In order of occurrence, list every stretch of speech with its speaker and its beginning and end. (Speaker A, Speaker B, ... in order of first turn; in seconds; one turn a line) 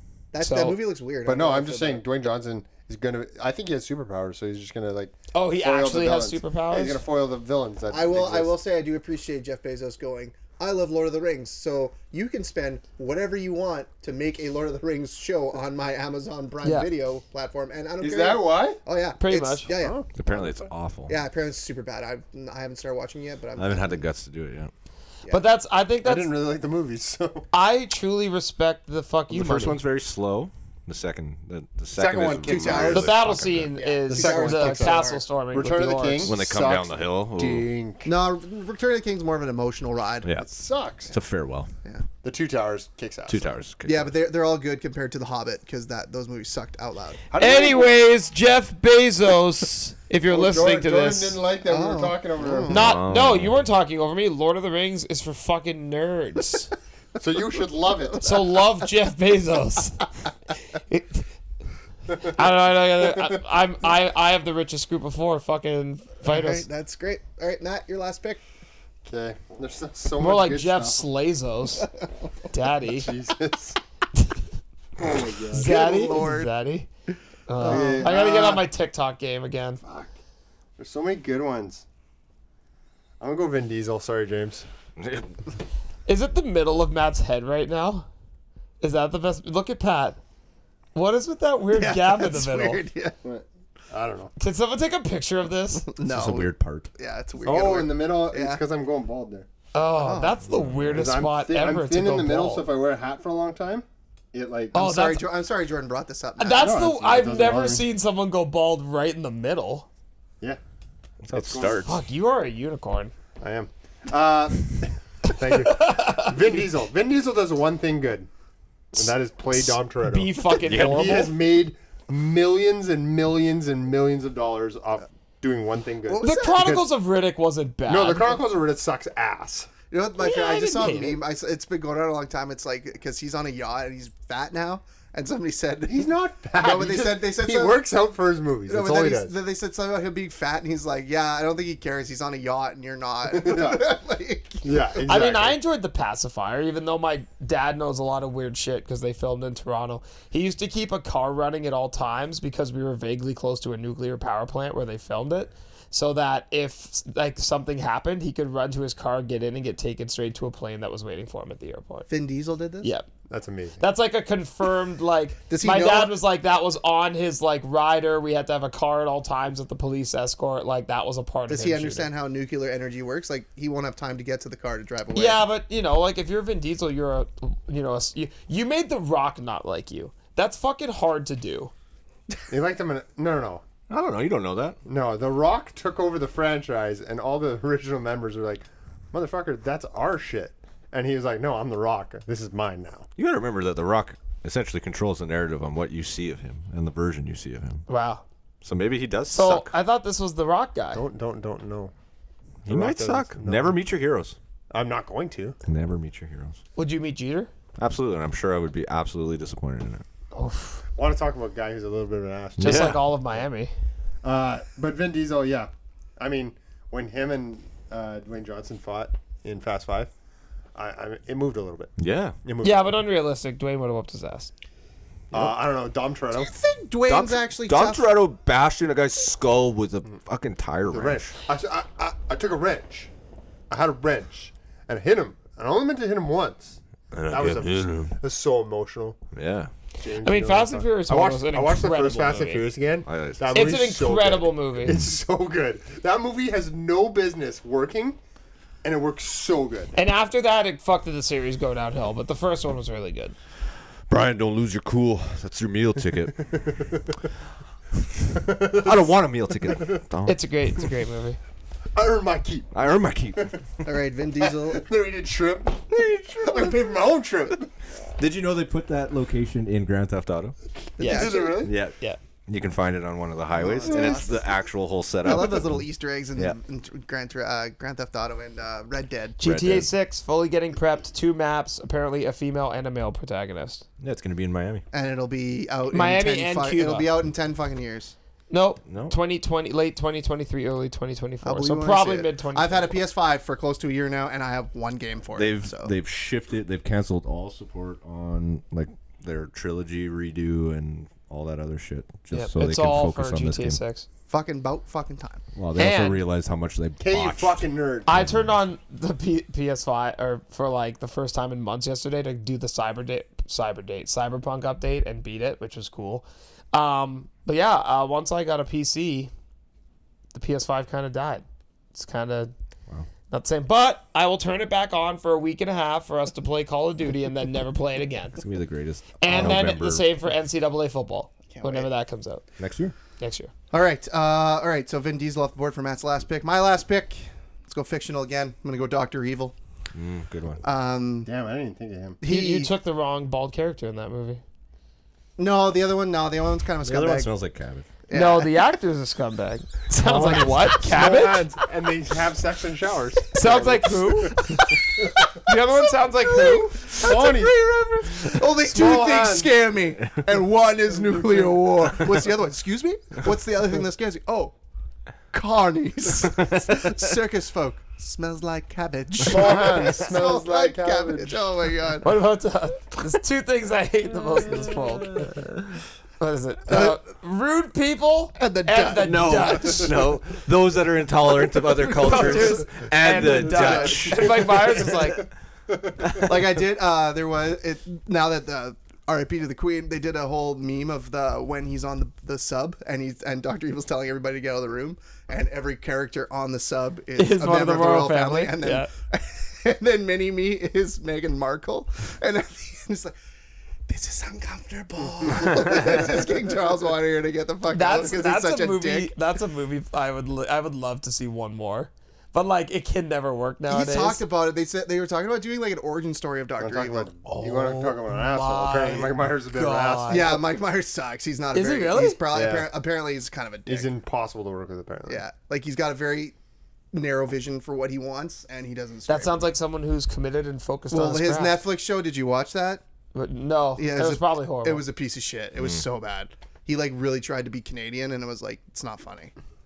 Speaker A: 0.3-2.0
Speaker B: 0.4-0.8
Speaker C: 1.3-8.5
Speaker B: 5.3-7.0
Speaker A: 7.9-20.2
Speaker B: 16.6-16.9
Speaker C: 18.0-18.8
Speaker B: 19.2-19.7
Speaker C: 19.8-20.5
Speaker D: 20.1-21.1
Speaker A: 21.1-24.0
Speaker D: 23.6-24.7
Speaker B: 25.3-26.4
Speaker C: 26.0-27.5
Speaker B: 27.5-29.8
Speaker D: 29.3-33.7
Speaker C: 31.9-33.1
Speaker A: 32.4-33.2
Speaker B: 32.9-36.3
Speaker A: 33.7-35.2
Speaker C: 34.1-38.1
Speaker D: 36.2-37.7
Speaker A: 38.0-40.3
Speaker C: 40.4-41.1
Speaker D: 41.1-41.7
Speaker C: 42.2-43.6
Speaker D: 43.3-44.1
Speaker A: 43.9-47.2
Speaker C: 47.3-47.9
Speaker B: 47.3-51.4
Speaker C: 50.3-52.9
Speaker A: 51.6-52.9
Speaker D: 52.7-53.6
Speaker B: 52.7-56.7
Speaker C: 57.2-58.3
Speaker B: 58.2-60.1
Speaker B: 60.7-61.3
Speaker B: 62.2-66.7
Speaker A: 66.2-68.4
Speaker C: 69.0-71.0
Speaker B: 70.2-71.9
Speaker B: 72.5-73.1
Speaker C: 72.9-73.8
Speaker C: 75.0-76.3
Speaker A: 75.5-76.5
Speaker B: 75.5-76.9
Speaker B: 77.5-79.8
Speaker A: 77.6-78.2
Speaker C: 77.6-78.7
Speaker C: 79.8-80.1
Speaker C: 80.8-81.8
Speaker C: 83.2-84.7
Speaker D: 85.0-85.3
Speaker B: 86.1-88.1
Speaker B: 88.8-90.2
Speaker B: 91.0-92.8
Speaker A: 91.7-93.2
Speaker C: 93.2-94.3
Speaker B: 94.4-95.9
Speaker A: 95.8-98.6
Speaker D: 96.1-96.9
Speaker C: 97.4-99.5
Speaker B: 99.7-102.7
Speaker A: 100.0-100.4
Speaker D: 100.5-101.0
Speaker C: 100.9-104.8
Speaker B: 104.7-105.3
Speaker A: 104.7-106.8
Speaker B: 106.4-109.9
Speaker C: 106.5-107.9
Speaker D: 111.2-112.0
Speaker C: 111.3-111.9
Speaker B: 111.8-113.1
Speaker C: 113.4-118.3
Speaker B: 115.7-116.3
Speaker C: 118.9-126.9
Speaker B: 119.5-121.3
Speaker D: 120.6-121.3
Speaker A: 126.1-126.8
Speaker B: 126.2-128.4
Speaker C: 127.9-129.7
Speaker A: 129.9-137.8
Speaker B: 130.2-131.2
Speaker C: 135.9-139.3
Speaker A: 138.7-144.9
Speaker C: 143.3-143.9
Speaker C: 144.6-145.6
Speaker B: 145.1-162.1
Speaker A: 162.1-162.9
Speaker B: 162.8-163.1
Speaker C: 163.3-163.8
Speaker B: 163.8-172.1
Speaker A: 165.5-166.2
Speaker A: 171.5-175.4
Speaker B: 175.2-181.7
Speaker C: 182.5-183.6
Speaker D: 183.9-184.8
Speaker C: 184.8-193.1
Speaker D: 193.2-197.8
Speaker B: 197.9-198.2
Speaker D: 198.6-199.7
Speaker B: 199.3-201.0
Speaker C: 200.9-201.9
Speaker D: 202.7-204.4
Speaker C: 202.7-203.8
Speaker C: 204.7-205.6
Speaker D: 205.7-206.6
Speaker B: 206.8-207.5
Speaker D: 207.8-210.0
Speaker B: 210.3-210.8
Speaker C: 210.9-213.0
Speaker D: 212.6-213.0
Speaker B: 212.6-213.7
Speaker C: 214.2-220.1
Speaker C: 220.8-221.9
Speaker D: 222.0-222.4
Speaker C: 222.4-222.9
Speaker B: 222.6-224.5
Speaker C: 225.3-226.5
Speaker A: 226.3-228.1
Speaker D: 227.1-231.3
Speaker C: 230.9-233.1
Speaker C: 233.7-239.2
Speaker D: 237.1-238.2
Speaker D: 239.3-239.7
Speaker C: 240.0-248.2
Speaker B: 240.2-242.7
Speaker D: 243.1-243.8
Speaker B: 243.5-245.0
Speaker C: 248.8-249.9
Speaker B: 249.9-253.3
Speaker D: 254.1-256.6
Speaker C: 256.5-257.1
Speaker C: 258.4-259.1
Speaker D: 258.4-260.4
Speaker C: 259.7-259.9
Speaker B: 260.3-261.4
Speaker C: 261.9-262.7
Speaker D: 262.7-263.6
Speaker A: 263.9-264.9
Speaker C: 264.4-267.7
Speaker D: 265.9-266.7
Speaker D: 268.2-270.6
Speaker A: 271.0-271.7
Speaker B: 271.0-272.2
Speaker C: 271.0-271.7
Speaker D: 271.6-272.0
Speaker D: 272.5-275.8
Speaker A: 273.6-274.4
Speaker C: 273.9-274.2
Speaker A: 275.2-279.4
Speaker B: 279.4-283.8
Speaker D: 279.4-279.9
Speaker D: 284.0-284.8
Speaker A: 284.9-288.1
Speaker B: 285.9-287.1
Speaker B: 288.5-292.9
Speaker D: 288.9-289.1
Speaker A: 291.4-295.9
Speaker D: 295.4-303.8
Speaker B: 302.3-304.1
Speaker A: 304.3-305.4
Speaker D: 305.6-308.5
Speaker B: 305.8-306.2
Speaker C: 307.0-308.2
Speaker B: 308.1-319.3
Speaker B: 320.3-322.5
Speaker B: 323.3-328.4
Speaker D: 328.4-330.1
Speaker B: 329.2-332.4
Speaker A: 331.5-331.9
Speaker D: 332.6-332.9
Speaker B: 333.2-333.5
Speaker A: 333.7-339.5
Speaker D: 339.9-340.6
Speaker A: 340.6-341.3
Speaker C: 341.2-342.2
Speaker A: 342.2-342.7
Speaker B: 342.2-344.4
Speaker A: 345.4-347.3
Speaker D: 346.8-347.9
Speaker A: 348.1-348.7
Speaker B: 348.1-351.5
Speaker C: 350.0-355.3
Speaker B: 353.3-354.6
Speaker A: 354.3-364.6
Speaker B: 355.4-356.8
Speaker C: 356.9-357.5
Speaker C: 358.6-359.5
Speaker A: 365.3-372.2
Speaker C: 369.2-371.5
Speaker B: 372.0-375.4
Speaker B: 376.2-380.0
Speaker A: 376.7-377.0
Speaker A: 378.4-379.8
Speaker D: 379.0-385.0
Speaker A: 381.9-382.6
Speaker B: 382.0-385.2
Speaker A: 383.4-384.5
Speaker C: 384.1-386.2
Speaker A: 386.2-403.1
Speaker B: 397.2-398.9
Speaker A: 403.9-409.1
Speaker B: 407.7-414.2
Speaker A: 413.7-417.1
Speaker C: 416.6-420.4
Speaker B: 417.2-420.4
Speaker A: 420.1-423.9
Speaker B: 421.5-422.2
Speaker C: 422.3-422.7
Speaker C: 423.7-425.2
Speaker A: 425.1-426.4
Speaker A: 426.9-429.4
Speaker B: 429.1-431.6
Speaker A: 430.9-432.8
Speaker B: 433.1-434.9
Speaker A: 433.8-439.3